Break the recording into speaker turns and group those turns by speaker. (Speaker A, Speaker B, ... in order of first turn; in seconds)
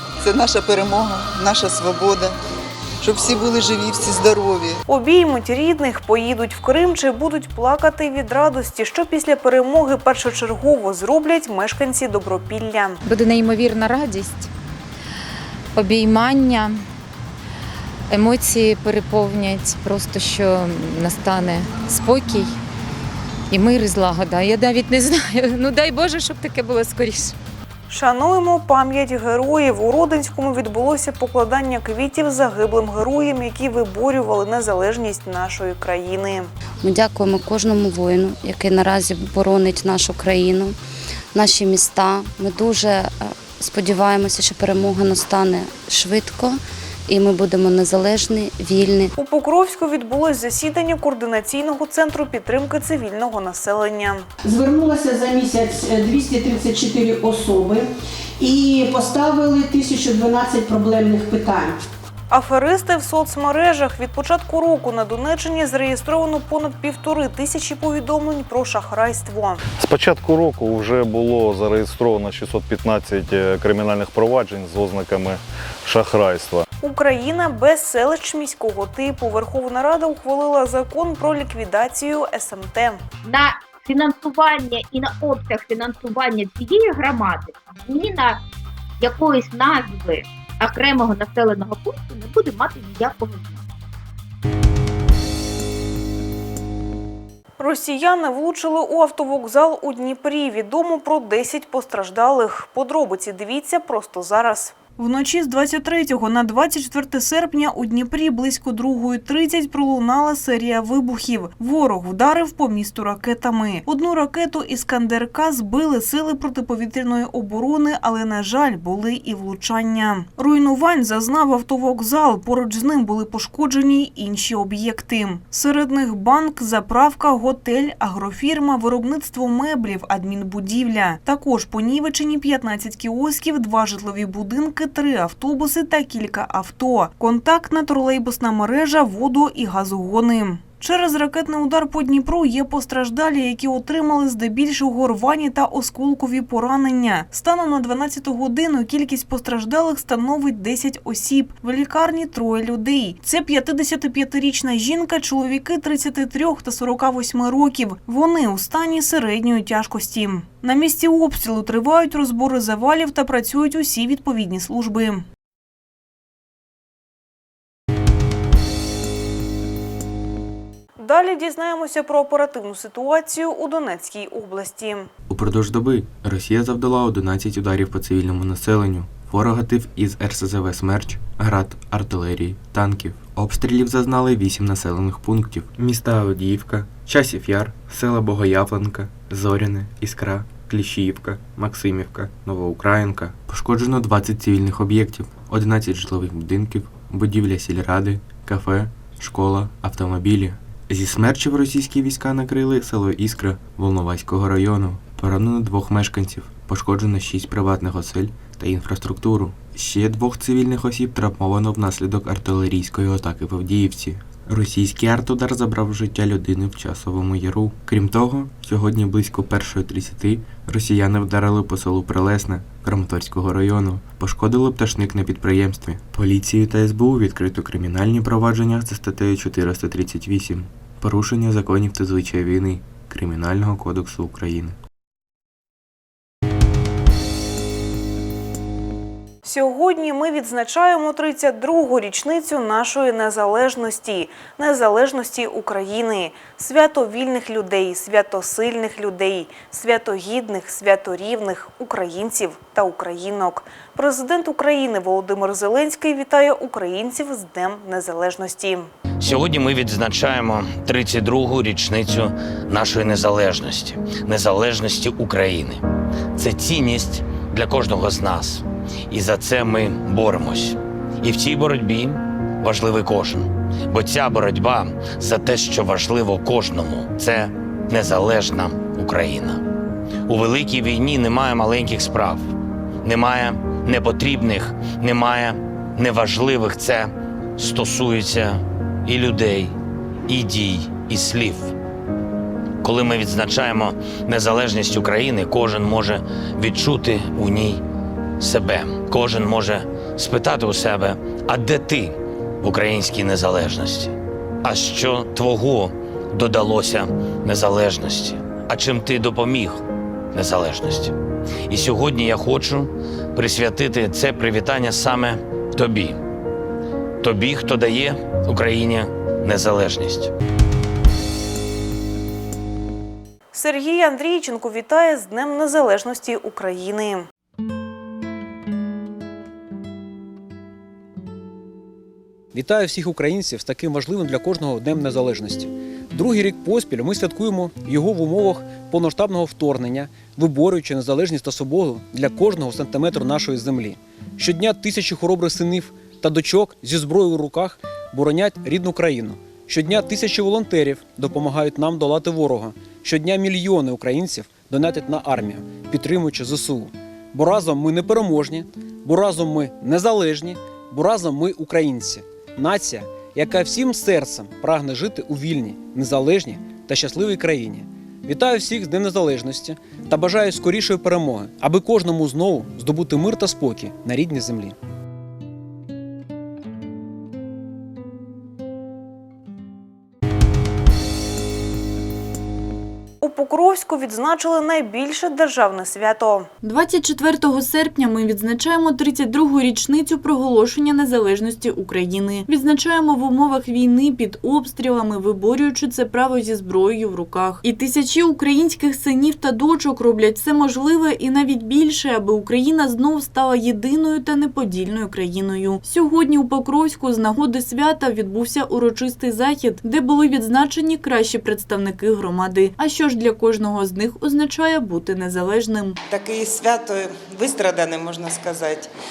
Speaker A: 0.2-2.3, 3.0-4.8
Speaker B: 4.9-13.0, 27.9-36.5, 49.1-54.3, 62.3-69.6, 76.8-83.0, 97.6-165.2, 171.0-175.1, 239.4-258.9, 323.5-327.3, 383.2-386.5
Speaker C: 13.0-14.5, 15.7-16.8, 18.1-22.6, 23.5-27.4
Speaker D: 36.8-40.8, 41.3-49.1
Speaker E: 54.4-57.9, 58.4-61.8
Speaker F: 69.8-76.7
Speaker G: 83.2-88.4, 89.0-93.6
Speaker H: 175.3-234.8
Speaker I: 259.2-265.8, 266.4-279.6, 280.3-282.5, 283.0-289.7, 290.3-291.7, 292.8-297.8, 298.4-309.8, 310.3-311.1, 311.7-316.2, 317.2-320.3
Speaker J: 332.5-374.8
Speaker K: 386.6-416.0
Speaker L: 416.1-418.9